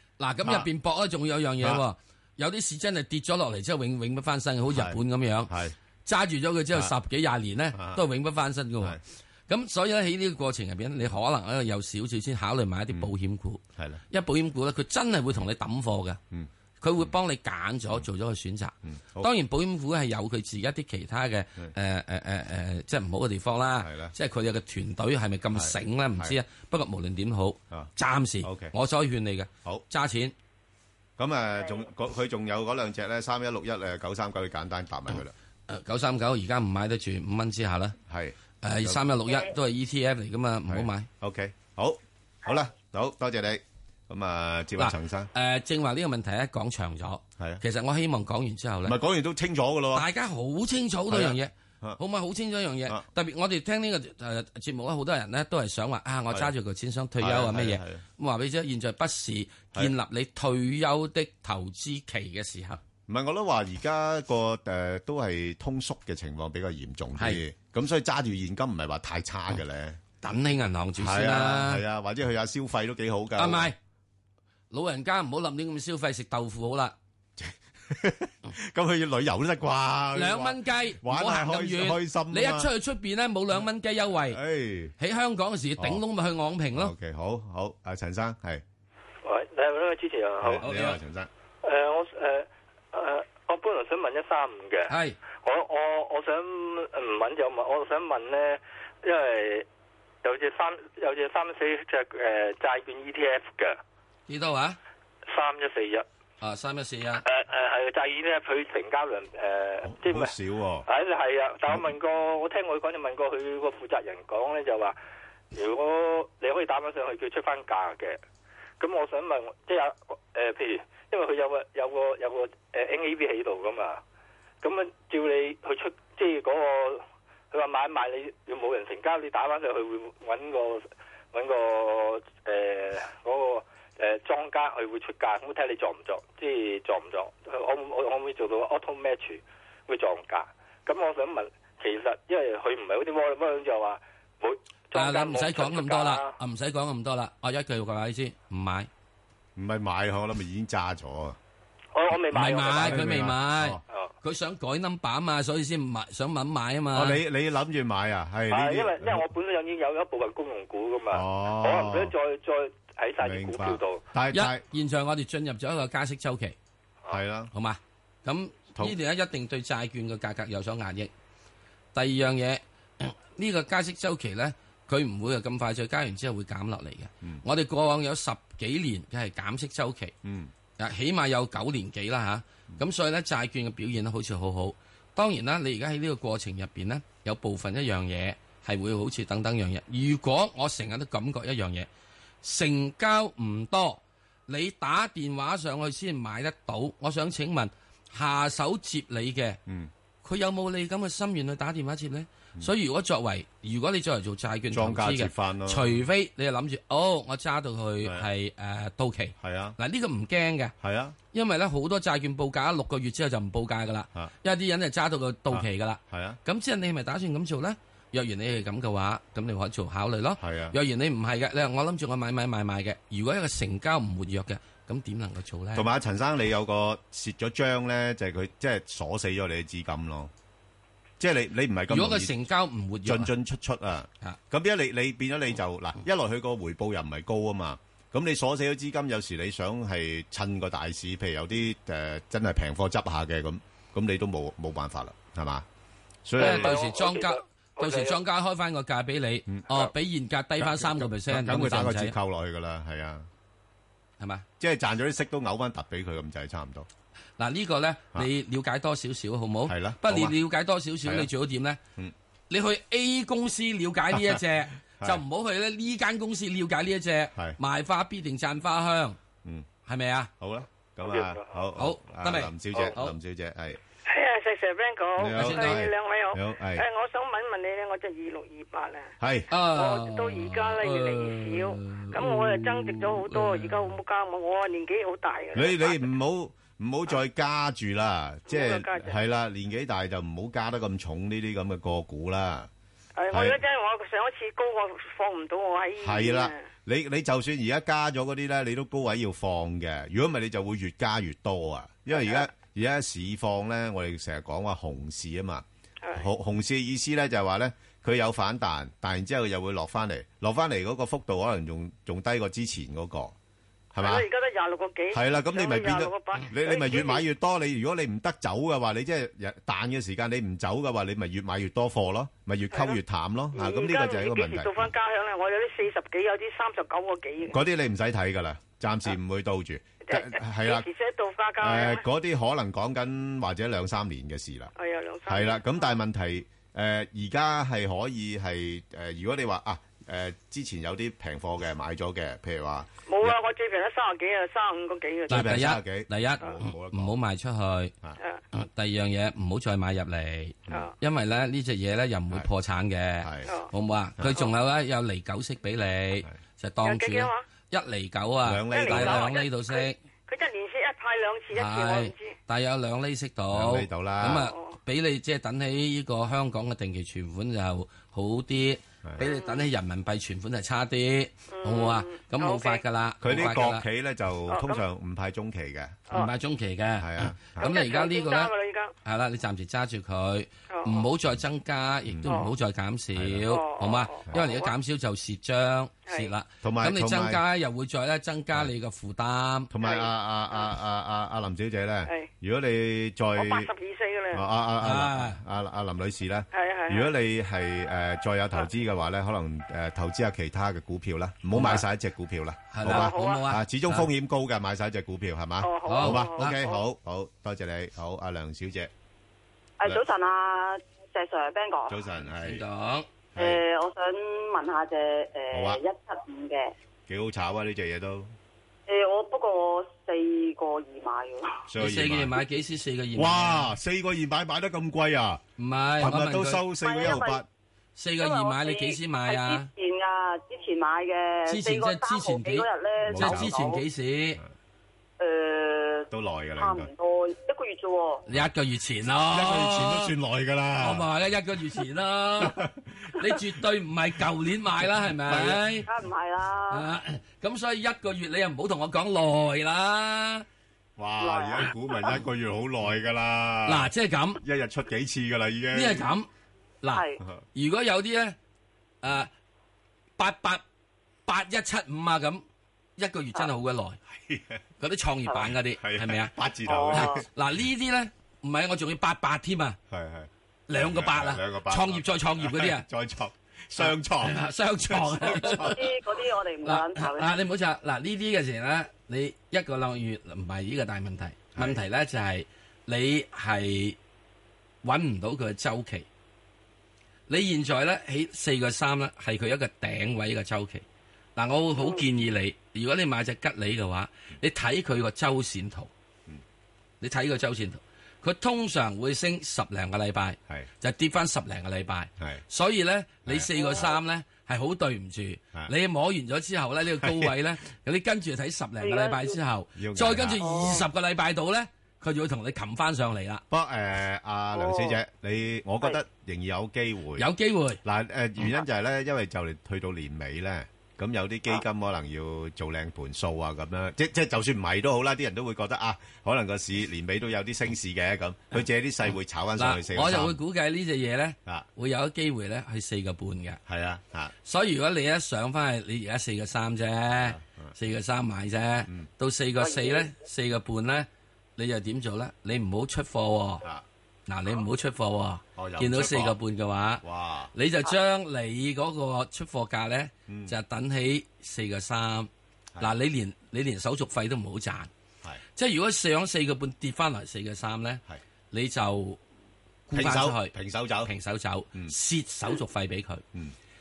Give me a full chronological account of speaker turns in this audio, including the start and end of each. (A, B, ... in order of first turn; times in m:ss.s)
0:00.2-0:05.5 A
0:04.7-0:05.7 B
0:06.0-0:16.2 A
0:07.7-0:08.0 B
0:13.8-0:14.0 B
0:16.8-0:30.3 A
0:18.8-0:19.3 B
0:23.8-0:24.1 B
0:25.5-0:26.4 B
0:28.4-0:28.7 B
0:31.2-0:35.3 B
0:35.7-0:38.0 A
0:38.1-0:39.0 B
0:38.6-0:41.1 A
0:40.7-0:45.3 B
0:44.8-0:49.0 A
0:48.8-0:50.1 B
0:49.9-1:02.8 A
0:51.1-0:52.0 B
0:57.2-0:58.0 B
1:03.1-1:10.0 B
1:07.2-1:07.4 A
1:10.2-1:11.8 A
1:11.0-1:13.7 B
1:13.4-1:13.8 A
1:14.7-1:17.0 A
1:17.4-1:22.7 B
1:20.1-1:24.4 A
1:24.2-1:24.9 B
1:25.0-1:26.9 A
1:26.7-1:28.6 B
1:29.2-1:30.6 C
1:30.4-1:31.3 B
1:30.6-1:31.0 A
1:31.6-1:39.6 C
1:34.9-1:35.2 A
1:40.2-1:43.8 C
1:44.3-1:44.8 A
1:45.3-1:46.0 C
1:46.4-1:47.2 A
1:47.2-1:50.3 C
1:49.8-1:50.9 B
1:50.9-1:55.0 C
1:51.7-1:51.9 B
1:55.5-1:58.2 C
1:58.8-2:04.0 C
2:04.6-2:26.3 C
2:24.9-2:28.9 A
2:29.6-2:31.4 B
2:31.9-2:33.1 C
2:32.3-2:37.2 A
2:32.6-2:33.8 B
2:36.9-2:39.3 B
2:38.5-2:44.0 C
2:41.1-2:42.1 B
2:43.2-2:44.6 B
2:44.3-2:46.6 A
2:47.1-2:47.5 B
2:47.5-2:51.1 A
2:51.9-3:00.1 A
3:00.2-3:00.5 B
3:00.8-3:11.9 A
3:12.4-3:19.6 A
3:20.2-3:30.7 A
3:24.7-3:26.0 B
3:29.4-3:29.8 B
3:30.8-3:31.2 B
3:31.3-3:45.9 A
3:35.5-3:36.4 B
3:40.4-3:40.8 B
3:45.7-3:50.3 B
3:51.2-3:52.3 B
3:51.9-3:53.3 A
3:53.0-4:05.6 B
4:06.2-4:06.8 B
4:06.4-4:08.2 C
4:06.4-4:12.1 A
4:09.5-4:09.9 B
4:10.6-4:13.3 B
4:14.2-4:14.4 A
4:14.6-4:16.9 B
4:17.4-4:21.8 A
4:19.6-4:20.4 B
4:21.0-4:21.3 B
4:22.5-4:29.2 A
4:24.1-4:24.4 B
4:29.8-4:30.3 A
4:30.4-4:33.8 B
4:31.1-4:31.6 C
4:31.8-4:33.1 A
4:34.0-4:46.1 D
4:35.2-4:36.8 B
4:35.3-4:35.9 A
4:39.2-4:39.5 B
4:39.5-4:44.0 A
4:45.5-4:52.7 B
4:48.4-4:49.2 D
4:53.2-4:56.7 D
4:53.3-4:53.6 B
4:56.0-5:13.3 B
5:06.0-5:06.3 D
5:13.9-5:14.3 B
5:14.0-5:17.3 D
5:15.1-5:24.9 B
5:22.7-5:23.0 D
5:23.5-5:27.6 D
5:27.4-5:30.9 B
5:30.0-5:32.1 D
5:31.6-5:34.7 B
5:34.8-5:36.0 D
5:35.2-5:43.4 B
5:43.1-5:45.5 D
5:45.3-5:47.1 B
5:45.3-5:47.9 A
5:48.5-6:00.0 A
5:53.2-5:53.5 B
5:56.8-5:57.4 D
5:58.4-5:59.4 B
5:58.6-6:02.4 D
6:01.5-6:13.8 A
6:03.5-6:04.5 B
6:04.2-6:04.7 D
6:09.2-6:09.7 D
6:11.5-6:12.8 D
6:13.2-6:16.1 B
6:14.5-6:14.8 D
6:16.1-6:18.5 A
6:17.0-6:17.8 B
6:17.6-6:18.9 D
6:19.0-6:29.7 A
6:20.7-6:21.1 D
6:22.3-6:22.5 D
6:23.2-6:23.4 B
6:23.4-6:24.7 D
6:26.1-6:26.3 D
6:26.6-6:27.4 B
6:29.7-6:33.7 B
6:29.8-6:30.7 D
6:32.0-6:32.3 D
6:33.4-6:34.5 D
6:34.3-6:48.9 B
6:34.8-6:35.4 A
6:36.5-6:37.1 D
6:41.5-6:41.8 A
6:42.7-6:44.1 A
6:42.9-6:43.5 D
6:45.6-6:46.8 D
6:45.8-6:46.6 A
6:49.8-6:52.0 E
6:51.9-6:52.6 B
6:52.2-6:53.1 A
6:53.3-6:53.6 B
6:53.4-6:56.7 E
6:55.5-6:55.8 B
6:57.1-6:58.3 B
6:58.9-7:01.6 E
7:01.7-7:02.4 B
7:01.8-7:03.7 A
7:03.2-7:05.4 B
7:05.6-7:06.8 A
7:06.0-7:07.5 B
7:06.8-7:07.4 E
7:08.0-7:09.7 A
7:08.2-7:13.8 E
7:11.4-7:14.4 A
7:13.0-7:13.6 B
7:15.2-7:18.2 E
7:16.1-7:16.9 B
7:18.3-7:20.1 A
7:19.3-7:21.1 B
7:20.8-7:22.6 A
7:22.4-7:23.5 B
7:23.2-7:25.9 A
7:25.2-7:25.8 B
7:25.9-7:26.8 E
7:26.7-7:30.4 A
7:31.0-7:36.1 B
7:31.2-7:31.7 E
7:33.6-7:34.4 A
7:35.7-7:36.3 A
7:36.8-7:38.4 A
7:36.9-7:37.2 E
7:39.0-7:39.3 A
7:40.2-7:40.6 A
7:41.2-7:42.4 A
7:43.0-7:44.0 A
7:44.1-7:44.6 B
7:44.8-7:49.8 A
7:45.7-7:47.2 B
7:46.7-7:47.2 E
7:49.9-7:55.9 B
7:50.7-7:52.9 A
7:53.8-7:55.9 A
7:55.6-7:57.3 E
7:56.6-8:04.0 A
8:01.5-8:01.8 B
8:04.8-8:06.1 A
8:07.3-8:10.8 A
8:11.4-8:15.9 A
8:17.0-8:33.4 A
8:23.2-8:23.5 B
8:23.6-8:23.9 E
8:27.0-8:27.3 B
8:28.8-8:29.4 E
8:29.8-8:30.8 B
8:30.4-8:30.8 E
8:33.5-8:37.3 B
8:34.6-8:34.9 E
8:37.2-8:37.8 A
8:37.8-8:50.4 B
8:49.6-8:53.6 A
8:53.7-8:54.3 B
8:54.4-9:03.6 A
8:57.1-8:57.7 B
9:04.3-9:14.9 A
9:05.6-9:06.4 B
9:07.0-9:07.5 B
9:10.3-9:10.5 B
9:15.6-9:19.2 A
9:19.9-9:23.2 A
9:19.9-9:21.1 B